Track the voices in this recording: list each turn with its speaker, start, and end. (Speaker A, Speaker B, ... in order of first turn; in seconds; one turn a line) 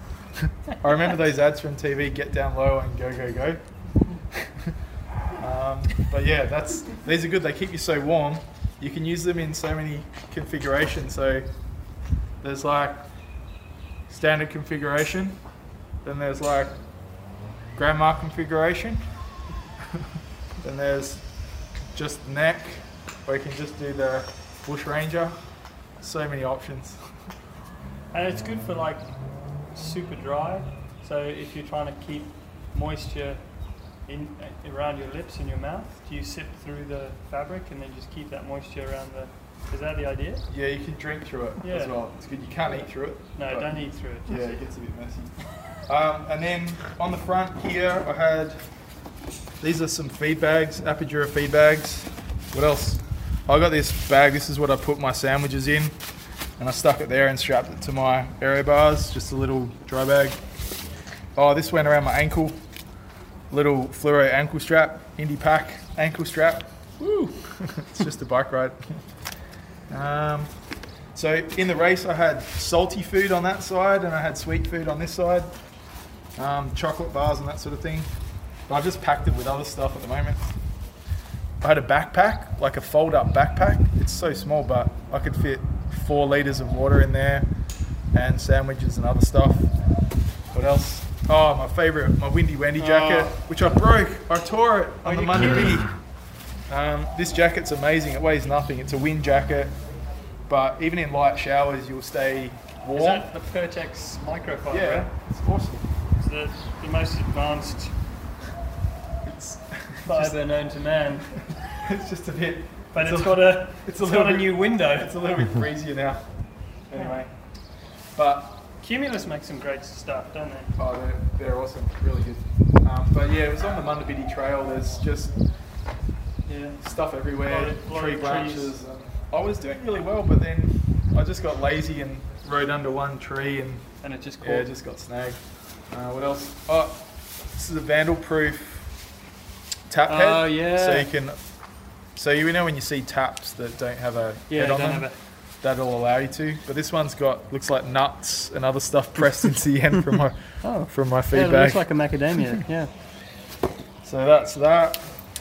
Speaker A: 0.4-3.6
Speaker A: 4.3-4.8
Speaker A: 5.4-11.5
Speaker A: 12.4-13.0
Speaker A: 14.1-15.4
Speaker A: 16.0-16.8
Speaker A: 17.8-19.1
Speaker A: 20.6-21.2
Speaker A: 21.9-25.4
Speaker A: 26.0-27.0
Speaker B: 28.1-29.1
Speaker B: 29.7-33.4
Speaker B: 34.1-40.4
Speaker A: 40.5-43.8
Speaker B: 41.6-42.0
Speaker B: 43.4-44.6
Speaker A: 44.3-45.3
Speaker A: 45.9-48.6
Speaker A: 49.6-56.0
Speaker A: 56.6-60.4
Speaker A: 61.4-62.6
Speaker A: 63.5-69.0
Speaker A: 69.9-70.5
Speaker A: 71.2-75.5
Speaker A: 76.4-78.1
Speaker A: 78.7-80.4
Speaker A: 81.6-87.5
Speaker A: 88.1-89.7
Speaker A: 90.5-95.9
Speaker B: 92.8-93.4
Speaker B: 95.0-95.8
Speaker A: 96.7-99.8
Speaker A: 100.5-103.3
Speaker B: 102.9-105.1
Speaker A: 104.7-105.9
Speaker B: 106.2-107.9
Speaker A: 109.2-110.3
Speaker B: 110.1-111.3
Speaker A: 111.8-116.3
Speaker B: 112.9-115.2
Speaker A: 116.9-117.3
Speaker B: 116.9-117.2
Speaker A: 118.2-118.6
Speaker B: 118.8-120.7
Speaker A: 120.8-125.3
Speaker B: 126.5-126.8
Speaker A: 126.8-133.8
Speaker B: 127.4-128.8
Speaker B: 134.0-134.7
Speaker A: 134.4-138.9
Speaker A: 139.9-141.4
Speaker B: 140.1-141.1
Speaker A: 142.2-145.1
Speaker B: 144.5-145.2
Speaker A: 145.6-151.8
Speaker B: 150.6-152.9
Speaker A: 154.0-155.1